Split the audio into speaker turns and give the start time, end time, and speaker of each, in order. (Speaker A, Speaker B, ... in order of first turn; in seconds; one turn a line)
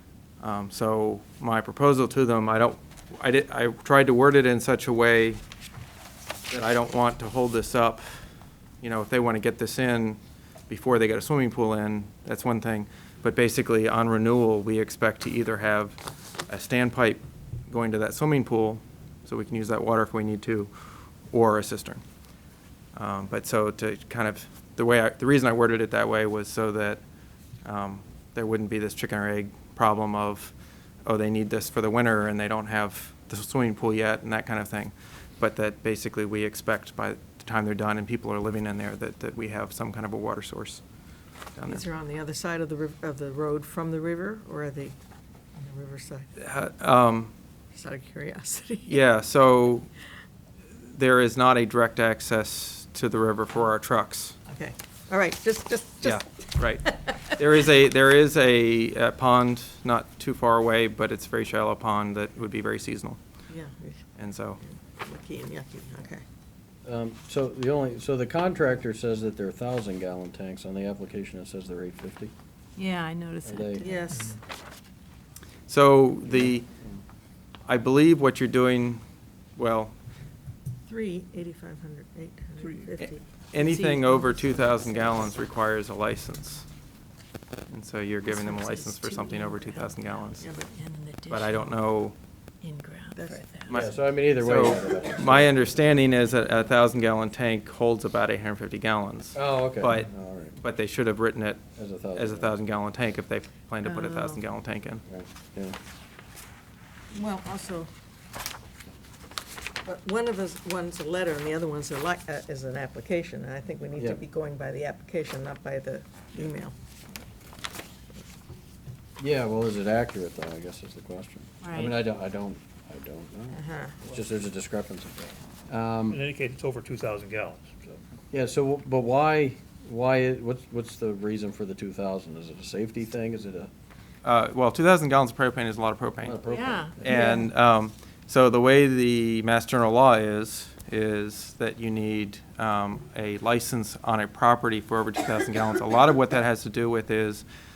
Speaker A: 0.4-5.4
Speaker A: 6.5-8.0
Speaker A: 8.8-20.7
Speaker A: 21.3-22.0
Speaker A: 22.9-27.0
Speaker A: 27.6-30.5
Speaker A: 31.0-40.8
Speaker A: 41.5-41.8
Speaker B: 41.6-44.9
Speaker B: 45.5-46.3
Speaker A: 46.4-47.3
Speaker B: 47.7-49.0
Speaker A: 48.9-49.9
Speaker A: 50.9-54.4
Speaker B: 54.5-57.0
Speaker A: 56.0-63.2
Speaker B: 63.5-64.0
Speaker A: 64.2-64.6
Speaker B: 64.6-66.2
Speaker C: 66.8-72.3
Speaker D: 72.8-74.2
Speaker C: 73.4-73.9
Speaker B: 73.8-74.4
Speaker A: 75.7-76.7
Speaker C: 76.3-77.0
Speaker A: 77.7-79.0
Speaker A: 79.5-79.9
Speaker B: 80.8-83.2
Speaker E: 82.6-82.9
Speaker A: 83.0-86.7
Speaker D: 83.6-84.7
Speaker A: 87.7-90.5
Speaker D: 88.3-91.8
Speaker B: 90.4-90.7
Speaker A: 91.3-92.1
Speaker D: 92.6-93.7
Speaker B: 93.1-93.4
Speaker A: 93.7-105.0
Speaker C: 93.7-95.6
Speaker C: 99.3-100.6
Speaker C: 101.8-102.5
Speaker D: 103.8-104.4
Speaker C: 105.0-105.8
Speaker B: 107.1-107.9
Speaker B: 109.8-116.7
Speaker C: 113.9-114.2
Speaker C: 119.2-126.2
Speaker D: 121.6-122.0
Speaker B: 123.5-124.0
Speaker E: 126.1-128.0
Speaker C: 128.3-133.7
Speaker A: 134.2-136.4
Speaker C: 136.2-137.1
Speaker D: 136.5-137.4
Speaker A: 137.0-147.4